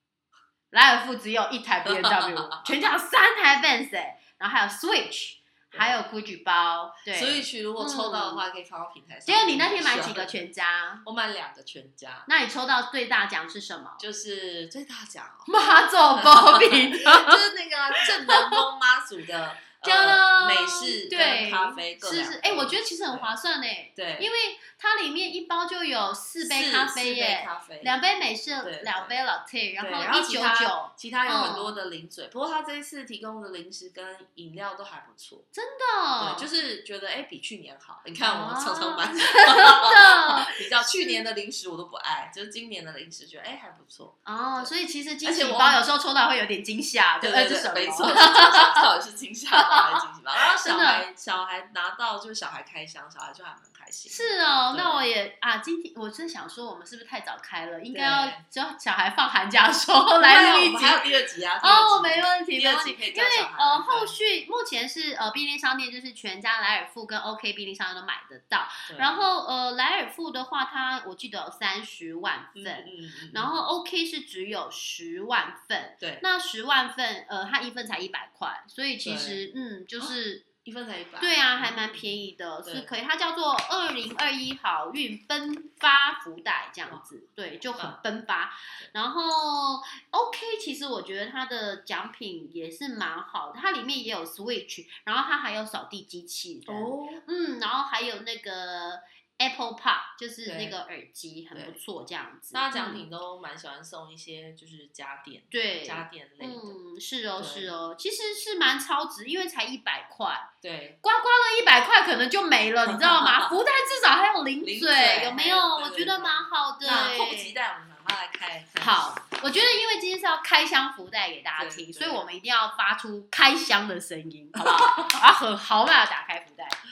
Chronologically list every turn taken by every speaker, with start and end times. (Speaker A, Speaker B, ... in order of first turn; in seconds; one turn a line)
Speaker A: 0.7-8.4
Speaker B: 1.8-2.7
Speaker B: 5.7-6.0
Speaker B: 7.1-10.4
Speaker A: 9.2-11.0
Speaker B: 11.0-12.3
Speaker A: 12.3-14.0
Speaker B: 14.0-15.5
Speaker A: 15.5-17.4
Speaker B: 16.1-23.3
Speaker A: 17.9-18.6
Speaker A: 19.8-31.8
Speaker B: 23.9-24.3
Speaker B: 26.4-27.9
Speaker B: 28.6-29.2
Speaker B: 29.8-35.5
Speaker A: 35.5-36.5
Speaker B: 36.2-44.7
Speaker A: 38.2-41.2
Speaker A: 44.2-48.9
Speaker B: 45.2-45.8
Speaker B: 47.2-55.1
Speaker A: 49.5-51.0
Speaker A: 54.1-61.1
Speaker B: 57.9-58.4
Speaker B: 60.2-64.1
Speaker A: 61.6-80.4
Speaker B: 68.9-69.2
Speaker B: 72.5-73.5
Speaker B: 79.0-79.4
Speaker B: 80.0-82.1
Speaker A: 81.2-103.0
Speaker B: 82.6-82.9
Speaker B: 96.7-97.2
Speaker B: 100.5-100.7
Speaker B: 102.5-106.7
Speaker A: 105.5-110.5
Speaker B: 107.4-107.7
Speaker B: 110.6-111.0
Speaker A: 111.0-117.5
Speaker B: 112.9-113.5
Speaker B: 114.6-119.1
Speaker A: 118.8-126.8
Speaker B: 121.6-122.2
Speaker B: 124.5-125.2